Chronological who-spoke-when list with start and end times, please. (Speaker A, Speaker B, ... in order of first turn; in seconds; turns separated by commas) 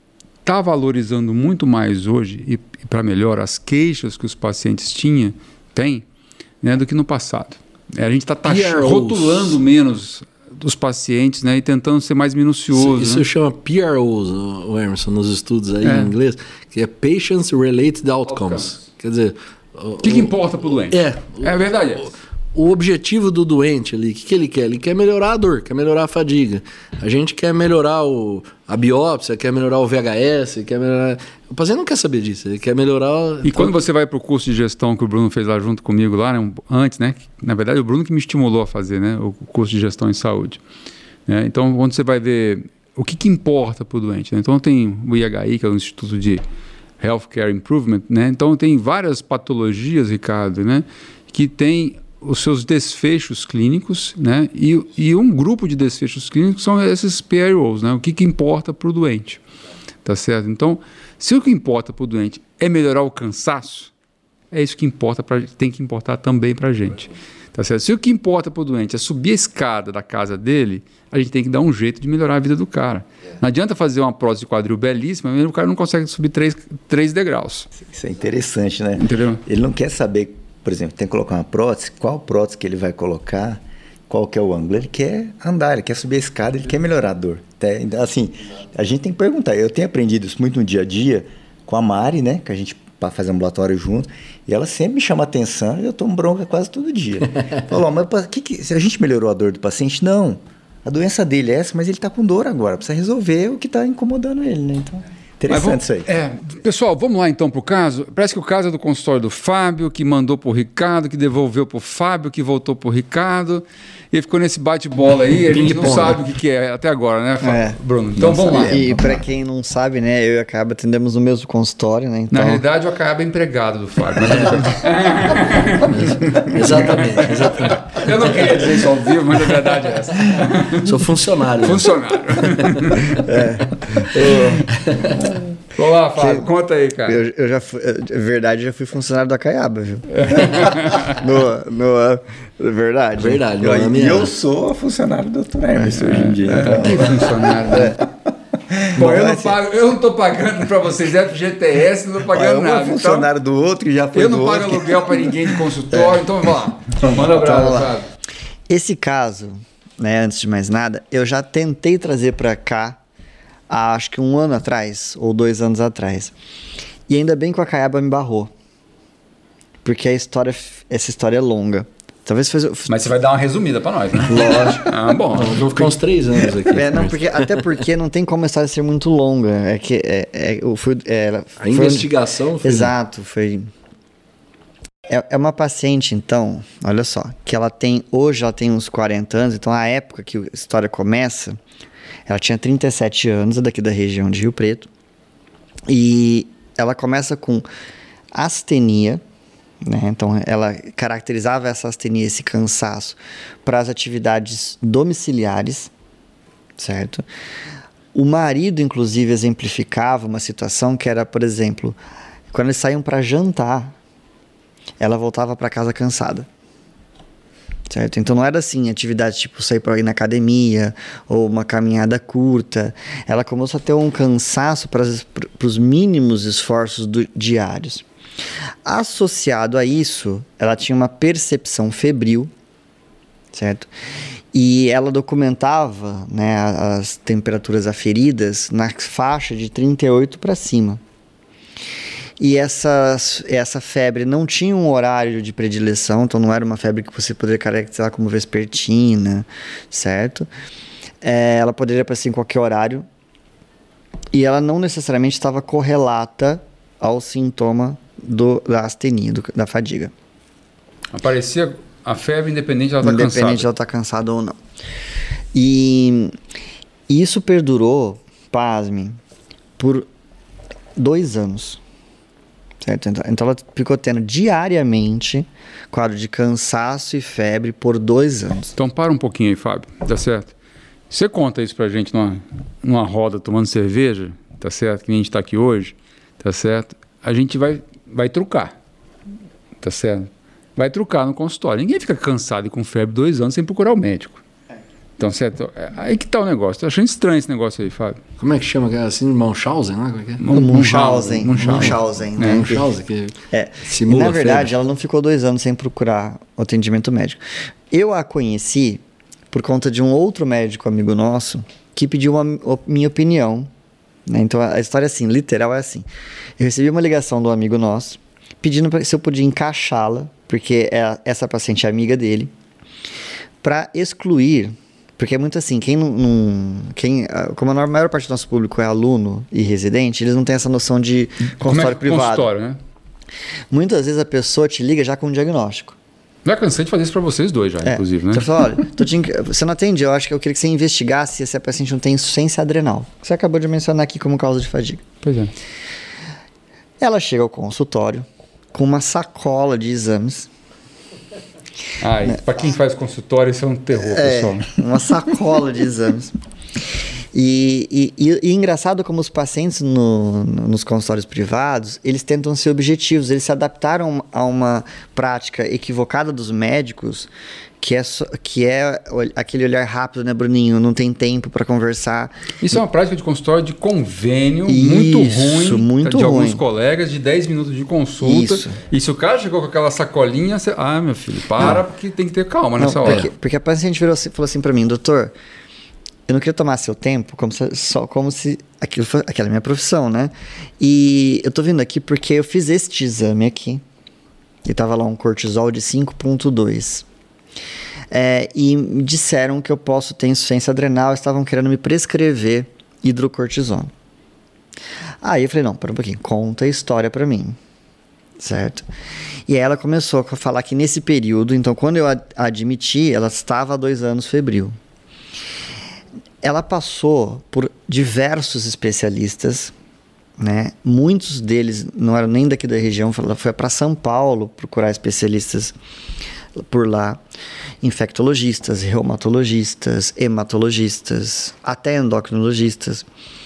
Speaker A: 0.4-6.0, Speaker A: 6.6-13.2, Speaker B: 8.4-9.6, Speaker B: 12.7-21.6, Speaker A: 15.8-16.1, Speaker A: 18.3-18.8, Speaker A: 20.0-22.1, Speaker B: 22.5-33.7, Speaker A: 33.4-40.6, Speaker A: 41.3-46.4, Speaker A: 47.0-59.4, Speaker A: 60.0-63.9, Speaker A: 64.5-77.7, Speaker C: 77.8-106.1, Speaker A: 79.0-79.4, Speaker A: 105.5-118.9, Speaker B: 115.8-116.1, Speaker D: 117.4-117.8, Speaker C: 118.2-119.0, Speaker D: 118.5-122.6, Speaker A: 122.3-130.9, Speaker B: 124.2-124.7, Speaker B: 125.9-128.1, Speaker B: 130.7-131.8, Speaker A: 131.6-133.2, Speaker B: 132.6-133.1, Speaker D: 133.2-134.3, Speaker A: 133.9-134.7, Speaker B: 134.7-135.2, Speaker C: 135.2-135.5, Speaker A: 135.7-137.2, Speaker D: 136.1-136.5, Speaker D: 137.1-143.5, Speaker A: 140.1-141.2, Speaker B: 143.2-144.3, Speaker C: 143.6-148.0, Speaker A: 145.8-148.0, Speaker D: 147.7-147.9, Speaker C: 148.7-149.0, Speaker A: 148.9-153.3, Speaker D: 149.0-149.6, Speaker C: 152.3-155.7, Speaker A: 154.1-158.1, Speaker D: 155.9-156.2, Speaker D: 157.3-157.9, Speaker D: 158.7-163.0, Speaker D: 163.7-166.3, Speaker D: 167.1-168.5, Speaker D: 169.8-173.0, Speaker A: 172.9-175.9, Speaker D: 174.2-174.8, Speaker B: 174.3-177.7, Speaker D: 176.7-182.1, Speaker B: 181.6-182.9, Speaker D: 182.6-183.7, Speaker D: 185.1-191.6, Speaker D: 192.3-194.9, Speaker D: 195.9-197.7, Speaker D: 198.3-199.2, Speaker D: 199.8-205.9, Speaker D: 206.8-207.2, Speaker D: 208.1-212.0, Speaker D: 212.5-213.9, Speaker D: 215.0-216.5, Speaker D: 217.9-228.0, Speaker D: 228.8-232.5, Speaker D: 233.5-233.9, Speaker D: 234.5-241.0, Speaker D: 242.4-250.5, Speaker D: 251.2-253.1, Speaker D: 254.3-260.1, Speaker A: 261.1-263.7, Speaker D: 263.0-264.6, Speaker D: 265.5-266.3, Speaker D: 267.1-269.2, Speaker D: 269.8-270.1, Speaker D: 270.9-271.8, Speaker D: 272.8-278.7, Speaker A: 278.7-280.5, Speaker A: 281.1-288.7, Speaker A: 289.8-294.4, Speaker A: 295.2-298.2, Speaker B: 298.4-300.4, Speaker A: 300.4-302.7, Speaker D: 300.5-302.9, Speaker B: 301.5-303.3, Speaker D: 303.5-313.7, Speaker B: 303.9-304.7, Speaker D: 314.3-316.1, Speaker D: 316.6-322.5, Speaker D: 323.6-332.4, Speaker A: 331.6-332.8, Speaker D: 333.7-336.0, Speaker A: 336.4-338.5, Speaker D: 337.8-345.0, Speaker A: 345.2-345.5, Speaker D: 347.0-350.5, Speaker A: 352.0-354.6, Speaker D: 353.9-356.3, Speaker D: 357.3-372.3, Speaker A: 372.6-383.3, Speaker D: 374.6-376.6, Speaker D: 378.2-378.8, Speaker D: 382.8-385.3, Speaker D: 386.3-393.8, Speaker D: 394.6-397.1, Speaker D: 398.1-403.9, Speaker D: 405.2-407.6, Speaker D: 408.4-408.9, Speaker D: 409.5-414.7, Speaker D: 416.4-419.7, Speaker D: 420.4-425.7, Speaker D: 426.6-427.2, Speaker D: 427.8-433.1